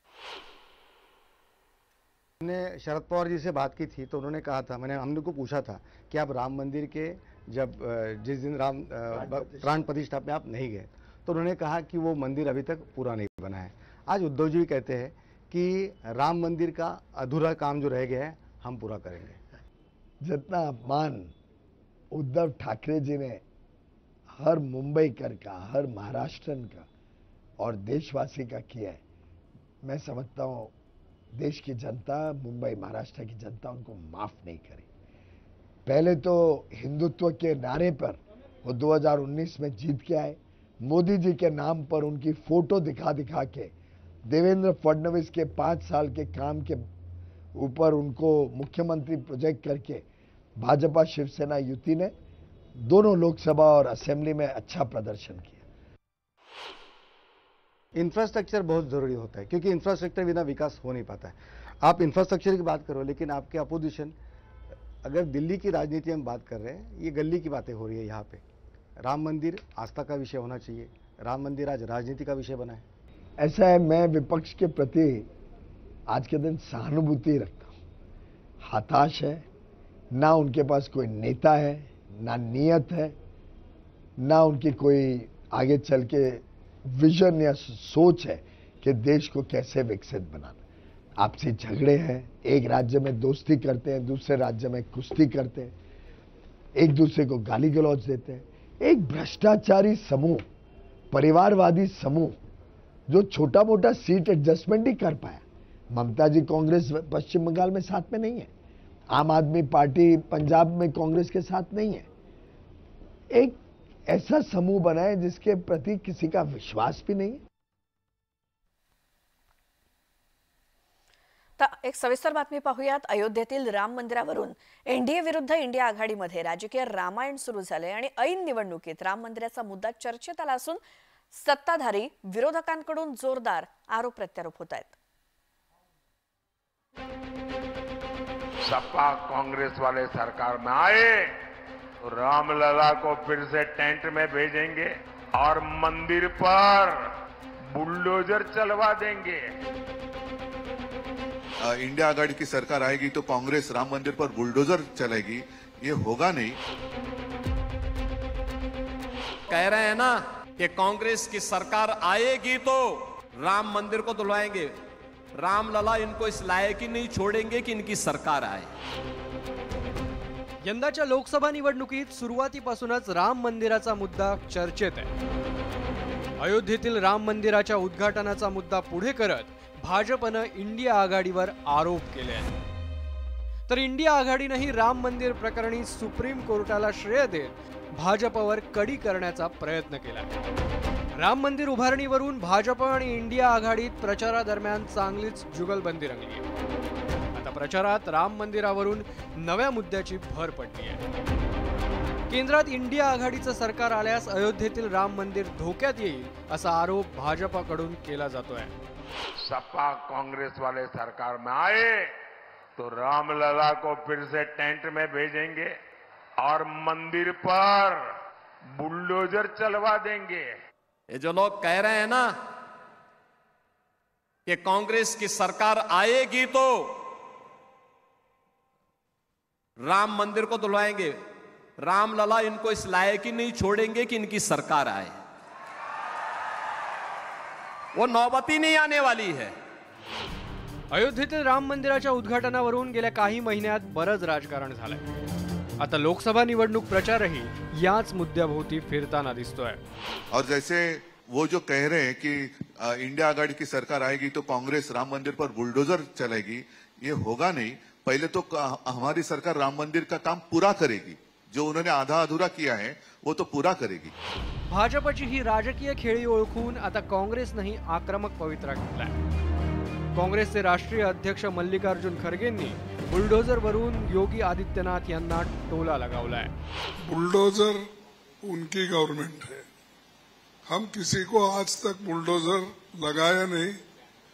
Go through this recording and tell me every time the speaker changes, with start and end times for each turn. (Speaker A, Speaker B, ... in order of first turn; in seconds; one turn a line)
Speaker A: 2.4-19.4
Speaker B: 9.1-9.8
Speaker B: 20.2-21.3
Speaker B: 22.1-23.4
Speaker B: 24.4-26.9
Speaker B: 27.6-29.0
Speaker B: 29.8-30.7
Speaker B: 31.3-34.9
Speaker B: 35.9-43.7
Speaker B: 44.3-46.8
Speaker B: 47.5-50.0
Speaker B: 50.6-52.1
Speaker B: 52.8-55.6
Speaker A: 57.9-64.2
Speaker A: 65.0-68.4
Speaker A: 69.0-72.8
Speaker B: 73.4-75.3
Speaker B: 76.1-77.7
Speaker B: 78.6-79.4
Speaker B: 80.1-83.1
Speaker B: 84.2-86.4
Speaker B: 86.9-90.6
Speaker B: 91.2-95.7
Speaker B: 96.8-100.4
Speaker B: 101.1-102.3
Speaker B: 103.1-108.5
Speaker B: 109.1-112.0
Speaker B: 113.3-117.4
Speaker C: 121.6-130.8
Speaker C: 131.3-134.9
Speaker D: 138.6-141.3
Speaker D: 142.0-147.0
Speaker D: 147.7-149.5
Speaker E: 151.7-156.6
Speaker F: 159.5-164.7
Speaker F: 165.4-168.7
Speaker G: 170.6-175.1
Speaker G: 176.4-182.5
Speaker G: 183.7-190.3
Speaker G: 191.1-196.4
Speaker G: 197.3-201.0
Speaker G: 202.3-208.7
Speaker D: 209.4-212.1
Speaker D: 212.8-215.8
Speaker D: 216.4-218.0
Speaker D: 218.7-220.5
Speaker F: 221.1-222.3
Speaker F: 224.4-226.9
Speaker F: 229.8-231.2
Speaker F: 231.8-235.2
Speaker F: 237.9-239.5
Speaker G: 240.9-245.0
Speaker G: 245.8-249.8
Speaker E: 250.3-264.1
Speaker G: 264.7-269.1
Speaker G: 270.1-276.5
Speaker H: 277.0-277.9
Speaker H: 278.4-279.6
Speaker H: 280.7-283.8